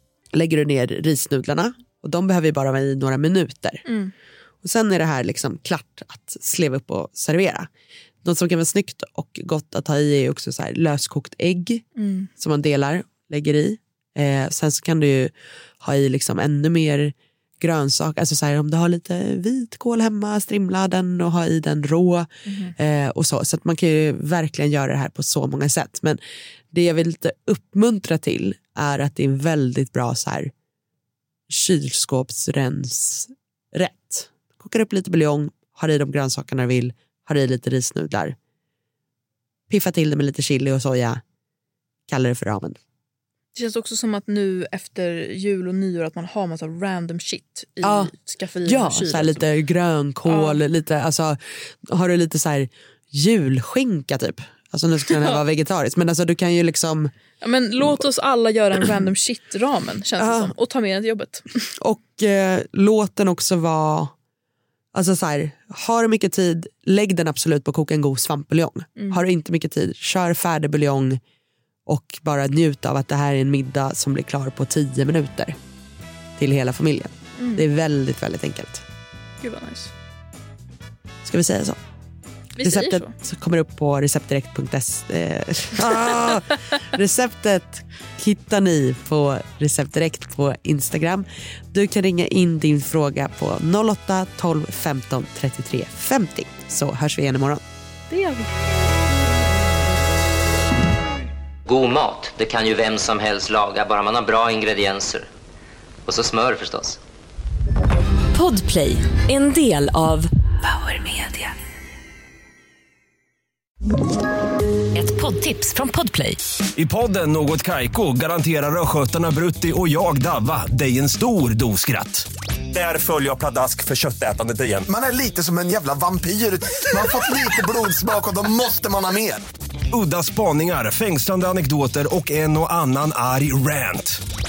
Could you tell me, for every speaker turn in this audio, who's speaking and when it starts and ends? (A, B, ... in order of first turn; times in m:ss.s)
0:00.4-0:03.8 A
0:03.9-0:04.1 B
0:04.6-0:07.7 A
0:08.2-0:11.8 A
0:12.0-0:12.3 B
0:12.4-0:26.2 A
0:22.5-0:22.7 B
0:26.7-0:30.5 A
0:31.5-0:38.4 A
0:39.7-0:41.2 A
0:42.1-0:42.8 A
0:43.6-0:49.5 B
0:47.8-0:57.1 A
0:50.3-0:50.6 B
0:57.4-1:01.4 B
1:00.2-1:00.6 A
1:01.8-1:04.1 A
1:04.9-1:11.2 A
1:09.0-1:09.2 B
1:11.9-1:15.6 A
1:16.4-1:18.8 A
1:17.4-1:17.6 B
1:19.4-1:19.9 B
1:21.2-1:21.8 A
1:22.6-1:23.1 B
1:22.6-1:37.6 A
1:38.1-1:38.6 B
1:41.7-1:45.3 C
1:46.1-1:47.0 C
1:48.3-1:51.5 D
1:54.9-1:56.4 D
1:56.8-2:04.9 E
2:04.9-2:09.4 F
2:09.9-2:14.2 E